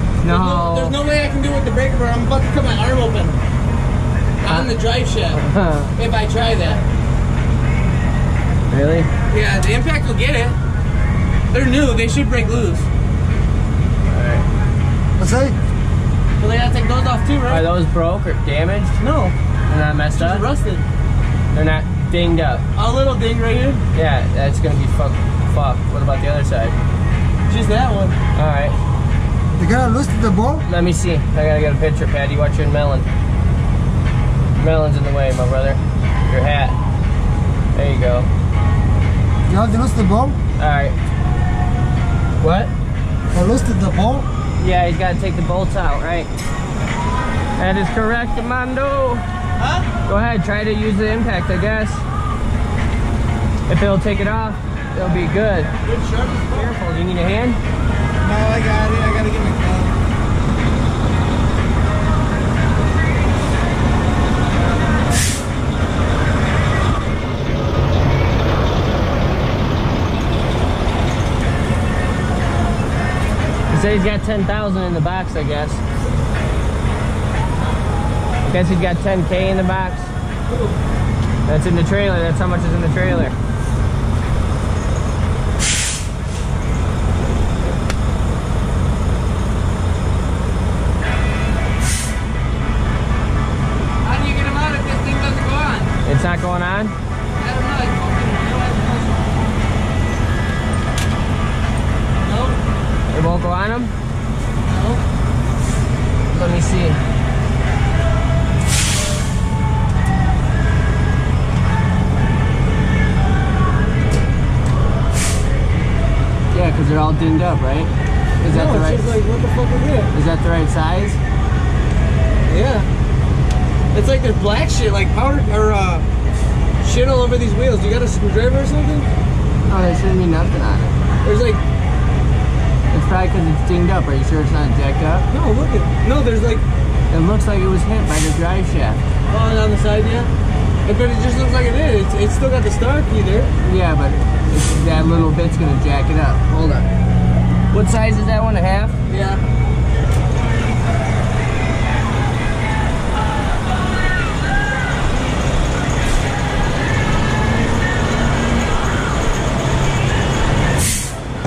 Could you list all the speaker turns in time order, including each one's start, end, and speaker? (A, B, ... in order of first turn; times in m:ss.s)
0:00.2-0:00.9 A
0:00.2-0:03.4 B
0:04.4-0:05.4 B
0:05.3-0:05.9 A
0:06.0-0:06.8 B
0:08.7-0:09.1 A
0:09.3-0:10.6 B
0:11.5-0:12.9 B
0:14.0-0:14.4 A
0:15.2-0:15.6 C
0:16.4-0:17.6 B
0:17.5-0:19.0 A
0:19.0-0:19.3 B
0:19.7-0:20.4 A
0:20.1-0:20.8 B
0:21.5-0:22.6 A
0:22.7-0:23.8 B
0:23.9-0:26.8 A
0:27.5-0:28.2 B
0:28.3-0:28.8 A
0:29.6-0:30.6 C
0:30.6-0:33.1 A
0:34.5-0:36.8 A
0:37.7-0:38.3 A
0:39.5-0:40.4 C
0:40.6-0:41.0 A
0:42.4-0:42.7 A
0:43.3-0:44.3 C
0:44.6-0:46.3 A
0:47.6-0:49.2 A
0:49.6-0:49.9 B
0:50.1-0:52.0 A
0:53.7-0:55.7 A
0:55.8-0:56.7 B
0:56.5-0:57.6 A
0:58.2-0:59.9 B
1:13.7-1:15.8 A
1:18.4-1:20.1 A
1:20.5-1:20.8 B
1:21.4-1:23.4 A
1:34.0-1:35.9 B
1:36.0-1:36.9 A
1:37.4-1:39.2 B
1:42.2-1:42.6 B
1:43.1-1:43.9 A
1:44.6-1:45.0 B
1:46.3-1:47.0 A
1:56.5-1:59.2 A
1:58.5-2:00.1 B
2:00.1-2:01.2 A
2:02.5-2:02.9 B
2:03.9-2:06.0 B
2:06.8-2:09.1 B
2:09.7-2:11.0 A
2:11.2-2:11.6 B
2:12.9-2:15.3 A
2:15.3-2:16.6 B
2:17.1-2:19.0 A
2:19.3-2:20.3 B
2:20.8-2:23.5 B
2:23.6-2:26.9 A
2:27.7-2:29.0 A
2:29.1-2:29.4 B